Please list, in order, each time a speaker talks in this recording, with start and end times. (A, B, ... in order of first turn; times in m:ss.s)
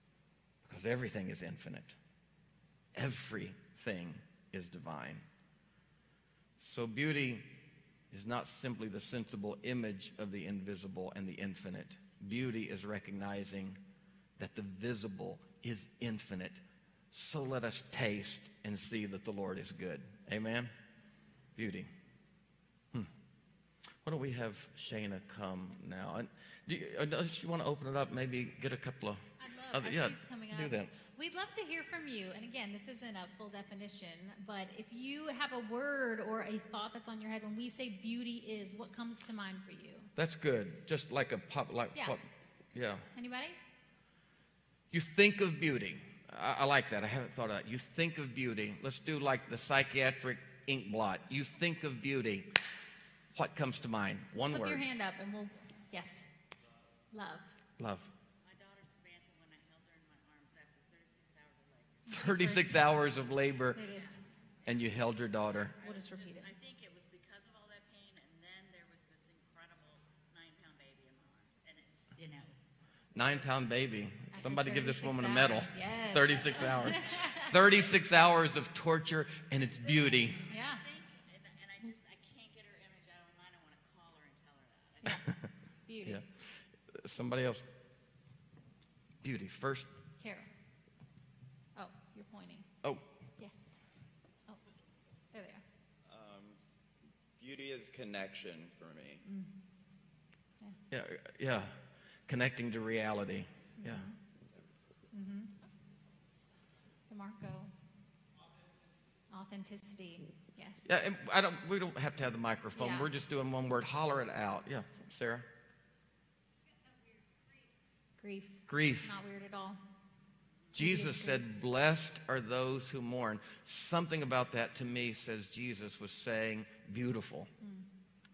0:00.6-0:02.0 A
0:02.9-0:05.2 A
0:06.6-0:13.8 A
0:14.4-0:20.7 A
0:21.6-0:21.9 A
0:24.0-0:30.9 A
0:29.4-0:40.1 B
0:40.2-0:43.1 A
0:43.1-0:43.6 B
0:44.9-0:52.6 A
0:53.3-0:54.8 A
0:54.3-0:56.3 B
0:57.1-0:57.6 B
0:57.8-0:58.1 A
0:58.4-1:02.2 C
1:02.1-1:02.8 B
1:02.1-1:03.8 A
1:03.7-1:04.2 B
1:03.8-1:12.6 C
1:04.6-1:05.7 A
1:05.8-1:06.5 B
1:13.1-1:20.5 A
1:14.3-1:17.5 B
1:20.3-1:25.5 C
1:20.5-1:20.8 B
1:25.9-1:26.2 B
1:26.0-1:27.6 A
1:29.2-1:29.9 A
1:30.2-1:30.5 B
1:31.7-1:32.7 B
1:32.8-1:33.1 A
1:33.4-1:33.8 B
1:35.3-1:35.6 B
1:36.0-1:36.6 D
1:37.4-1:39.2 D
1:39.2-1:39.6 B
1:40.9-1:44.1 A
1:43.8-1:44.2 B
1:45.1-1:45.5 B
1:47.1-1:47.7 B
1:49.3-1:50.9 B
1:50.8-1:55.5 A
1:52.7-1:53.1 B
1:58.2-1:59.8 B
1:58.7-1:59.2 A
2:00.7-2:07.5 A
2:00.8-2:01.4 B